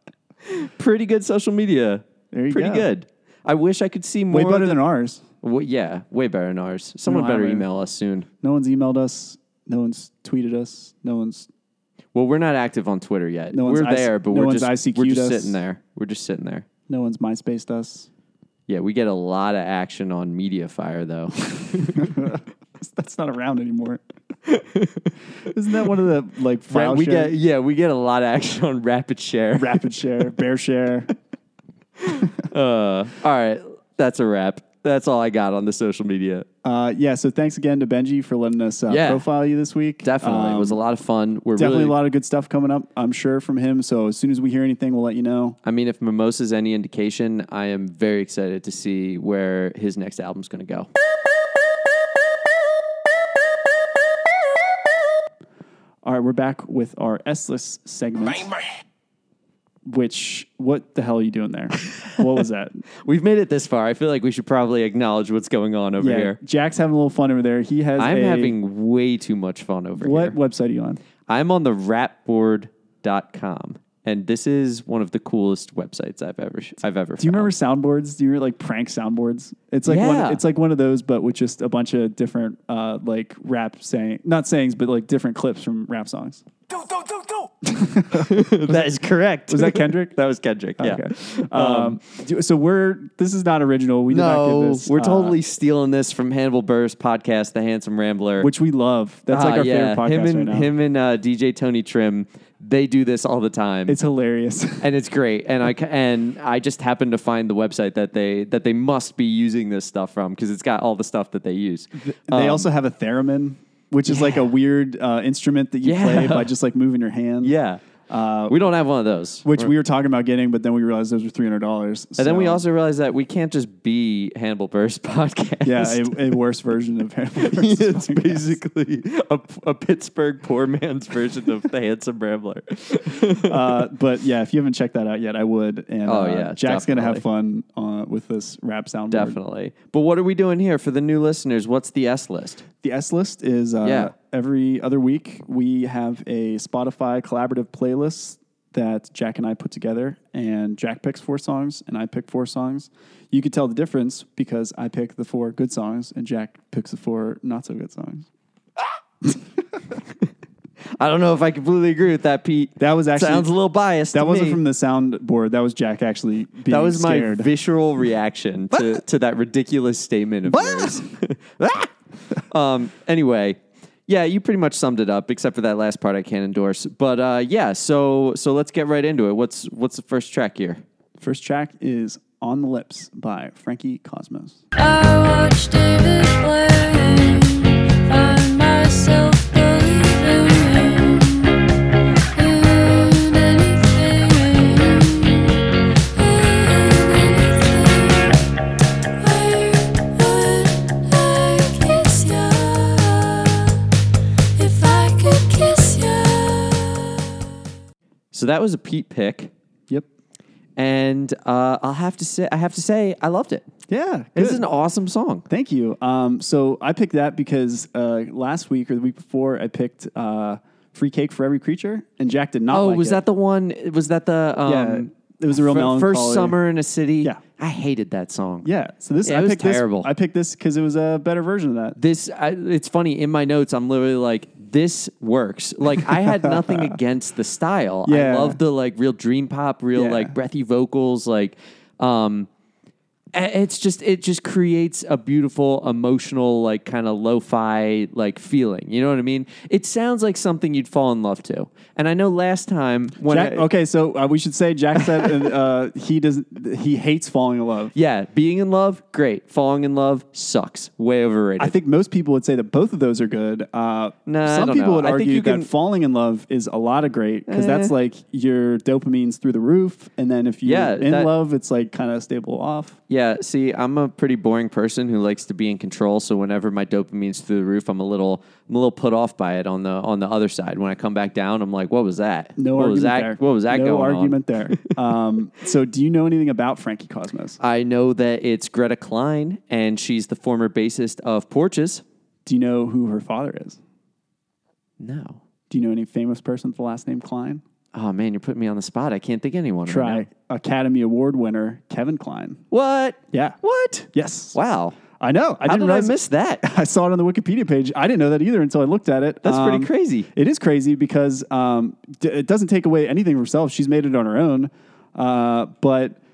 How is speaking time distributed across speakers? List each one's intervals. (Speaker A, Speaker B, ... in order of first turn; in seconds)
Speaker A: 0.4-4.8, 5.4-8.3, 12.1-16.7, 18.7-22.1, 24.4-25.1, 26.7-30.0, 32.0-36.5, 38.9-39.2, 40.0-42.0, 45.6-50.9, 63.0-66.4, 68.0-70.4, 71.2-77.5, 79.8-80.4, 88.1-92.0, 94.1-98.5, 99.3-104.0, 104.8-112.7, 114.1-114.5, 115.8-116.5, 117.4-117.8, 118.5-119.7, 122.2-126.3, 127.4-133.8, 136.0-137.2, 139.1-142.6, 143.8-144.1, 161.0-164.6, 166.7-180.8, 208.3-209.5, 210.8-213.7, 214.3-215.4, 222.7-228.7, 229.2-230.1, 232.0-242.5, 243.3-253.7, 257.9-261.8, 264.2-265.7, 267.5-267.9, 270.6-271.3, 273.1-284.4, 287.6-292.0, 295.0-295.4, 297.9-300.2, 302.7-305.0, 305.6-306.6, 309.4-310.3
Speaker B: 2.3-2.9, 4.3-5.2, 7.0-7.7, 8.4-11.5, 13.5-15.6, 16.9-18.1, 21.9-24.0, 25.4-27.3, 29.5-31.1, 36.6-40.8, 41.5-45.6, 56.0-58.5, 59.9-62.8, 66.0-68.5, 70.0-71.0, 77.2-86.4, 87.6-90.1, 90.8-95.4, 98.4-100.7, 103.9-104.9, 112.0-117.5, 118.1-118.6, 119.4-122.6, 125.6-128.6, 133.2-139.4, 142.8-158.3, 162.8-163.5, 164.1-167.5, 170.5-171.0, 181.2-184.6, 213.9-214.7, 215.5-223.2, 224.6-226.6, 228.6-232.0, 236.2-236.9, 238.1-238.6, 239.9-240.3, 253.2-257.9, 261.6-273.0, 282.6-287.6, 292.4-293.8, 295.7-297.6, 299.9-302.6, 304.1-304.6, 305.2-316.2
Speaker C: 184.8-191.6, 192.3-195.6, 196.1-198.4, 199.2-203.8, 204.6-207.4